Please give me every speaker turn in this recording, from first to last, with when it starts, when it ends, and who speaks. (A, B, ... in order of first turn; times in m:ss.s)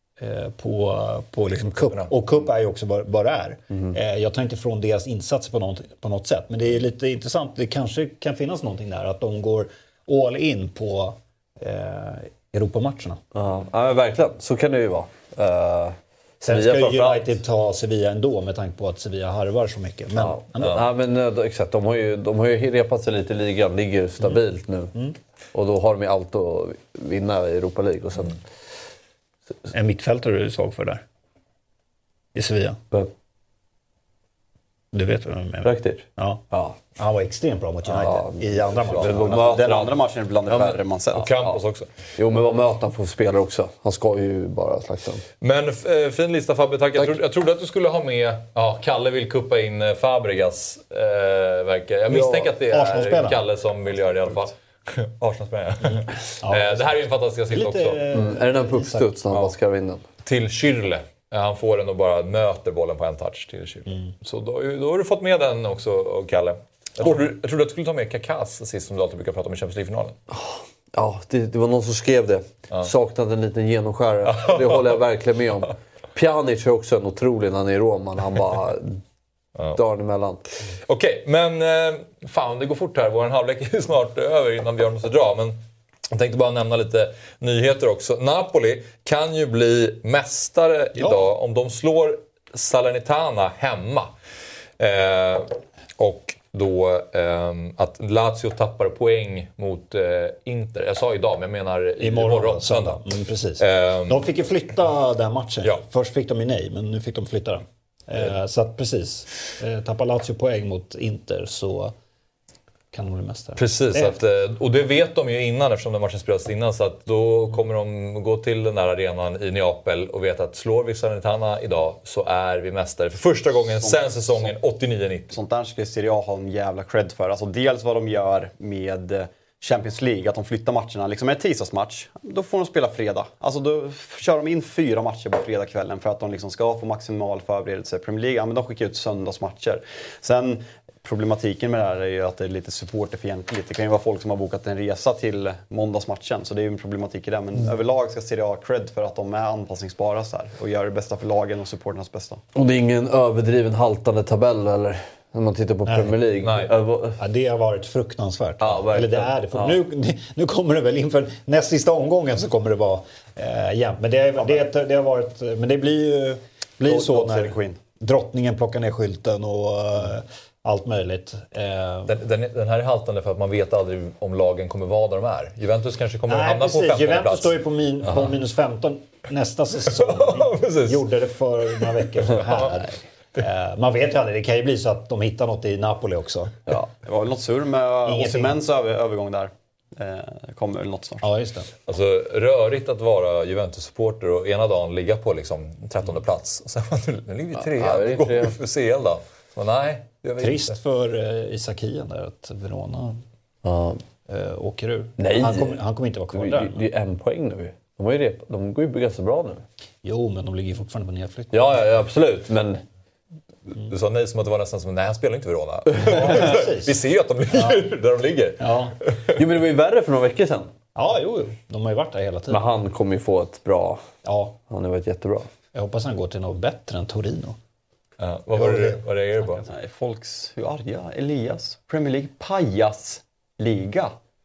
0:00.2-0:13.2 A
0:01.8-0:02.1 B
0:13.3-0:17.3 C
0:16.4-0:20.8 A
0:20.2-0:24.9 C
0:25.5-0:28.4 C
0:29.7-0:31.0 A
0:32.3-0:32.8 A
0:34.9-0:36.4 A
0:35.6-0:36.8 C
0:37.0-0:39.2 A
0:38.0-0:40.8 C
0:39.0-0:41.6 D
0:41.1-0:41.9 B
0:42.2-0:45.2 C
0:45.4-0:58.0 B
0:52.1-0:53.4 A
0:55.8-0:57.0 A
0:57.5-0:59.1 A
0:58.1-1:00.0 C
0:59.3-0:59.5 B
1:00.2-1:10.2 B
1:10.3-1:19.0 C
1:14.2-1:15.0 B
1:19.7-1:20.5 C
1:20.7-1:25.6 B
1:26.1-1:34.1 B
1:31.0-1:31.2 A
1:34.8-1:43.0 B
1:42.0-1:51.9 A
1:43.6-1:44.3 B
1:52.9-1:54.2 A
1:53.6-2:05.4 B
2:03.8-2:04.5 D
2:05.3-2:32.4 D
2:32.5-2:37.2 C
2:35.8-2:36.1 A
2:36.4-2:36.7 B
2:37.2-2:52.2 A
2:38.6-2:39.8 C
2:46.8-2:47.8 D
2:52.1-2:57.5 B
2:56.3-3:06.7 A
2:59.9-3:01.1 B
3:01.8-3:02.8 B
3:06.7-3:11.2 D
3:08.0-3:08.6 A
3:11.2-3:11.7 A
3:11.9-3:20.8 B
3:17.6-3:18.6 C
3:20.4-3:23.2 A
3:23.6-3:24.0 C
3:24.3-3:26.8 A
3:25.2-3:25.8 C
3:26.3-3:29.6 C
3:30.0-3:31.7 A
3:31.5-3:32.8 C
3:33.8-3:39.4 B
3:36.0-3:37.0 A
3:37.5-3:37.9 A
3:38.6-3:39.0 A
3:39.4-3:40.7 C
3:41.0-3:42.6 A
3:42.5-3:44.0 C
3:44.2-3:44.6 A
3:44.7-3:45.5 C
3:45.7-3:47.6 A
3:48.2-3:49.6 B
3:48.5-3:49.0 A
3:49.7-3:54.1 D